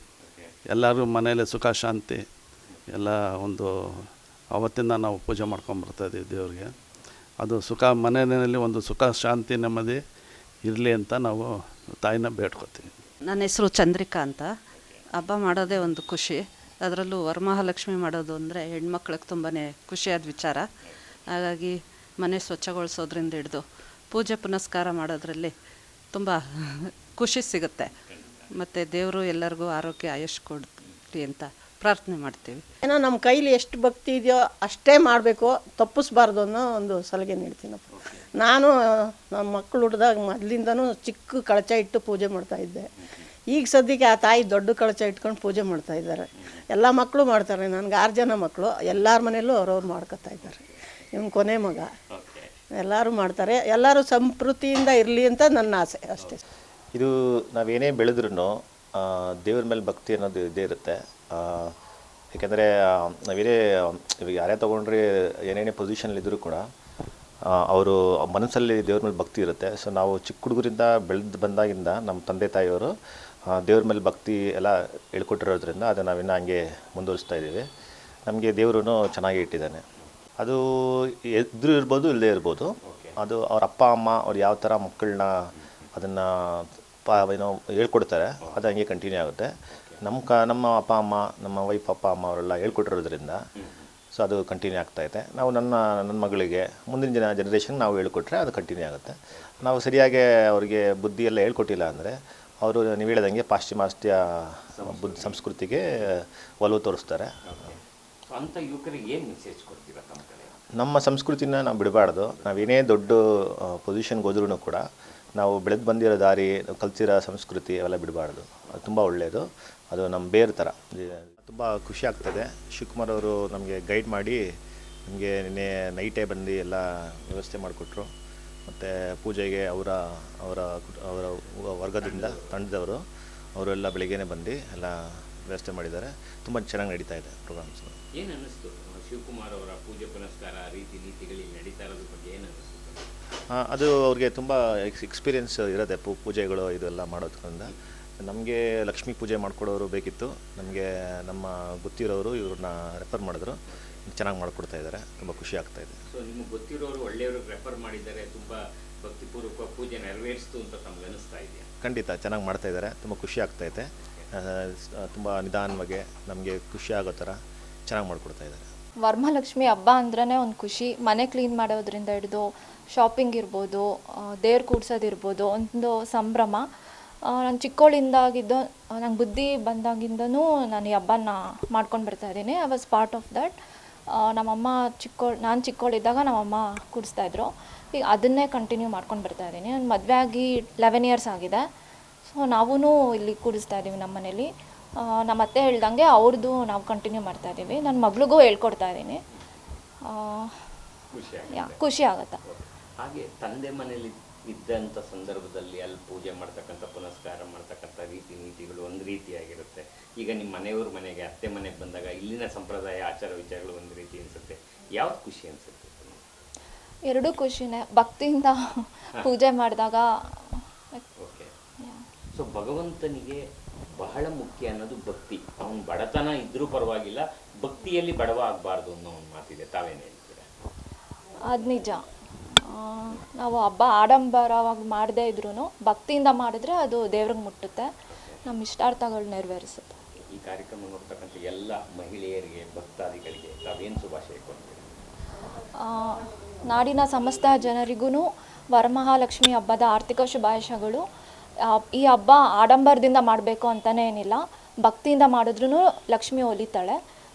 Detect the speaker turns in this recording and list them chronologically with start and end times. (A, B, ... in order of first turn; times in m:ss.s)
0:00.2-0:00.5 A
0:00.7-0:02.2 B
0:03.0-0:03.7 B
0:04.6-0:06.7 B
0:07.4-0:10.0 B
0:10.7-0:11.5 B
0:12.0-0:12.6 B
0:13.2-0:14.5 C
0:15.1-0:20.7 C
0:21.3-0:25.6 C
0:26.1-0:27.9 C
0:28.5-0:32.6 C
0:32.8-0:42.9 D
0:37.9-0:38.3 A
0:43.5-0:51.9 D
0:50.4-0:50.8 A
0:52.1-0:52.5 A
0:52.8-0:56.4 D
0:56.9-1:01.7 E
1:02.3-1:06.6 E
1:07.5-1:12.9 E
1:13.5-1:17.6 E
1:18.3-1:19.8 E
1:20.4-1:33.4 E
1:22.9-1:23.2 A
1:25.6-1:25.9 A
1:33.6-1:33.9 A
1:34.1-1:47.3 E
1:44.8-1:45.5 A
1:47.5-1:47.8 A
1:48.3-1:50.5 A
1:50.8-1:54.8 E
1:52.4-1:52.7 A
1:55.4-2:04.4 E
2:05.1-2:08.1 E
2:08.7-2:13.0 E
2:12.0-2:12.6 A
2:13.6-2:15.0 E
2:15.5-2:17.9 E
2:18.2-2:23.1 A
2:23.5-2:33.6 E
2:34.1-2:36.0 E
2:36.1-2:41.7 A
2:41.8-2:47.4 E
2:47.9-2:48.7 E
2:49.0-2:56.6 F
2:57.3-3:03.5 F
3:04.2-3:11.6 F
3:12.2-3:14.5 F
3:15.0-3:19.2 F
3:20.1-3:20.5 F
3:21.1-3:21.8 A
3:21.6-3:22.4 F
3:22.5-3:36.2 A
3:37.1-3:40.1 F
3:41.2-3:41.5 A
3:42.4-3:43.4 A
3:44.0-3:50.4 A
3:51.5-3:52.0 F
3:52.7-3:57.9 F
3:58.5-4:00.0 F
4:00.4-4:04.9 A
4:05.8-4:06.2 F
4:06.7-4:11.0 F
4:11.7-4:17.0 F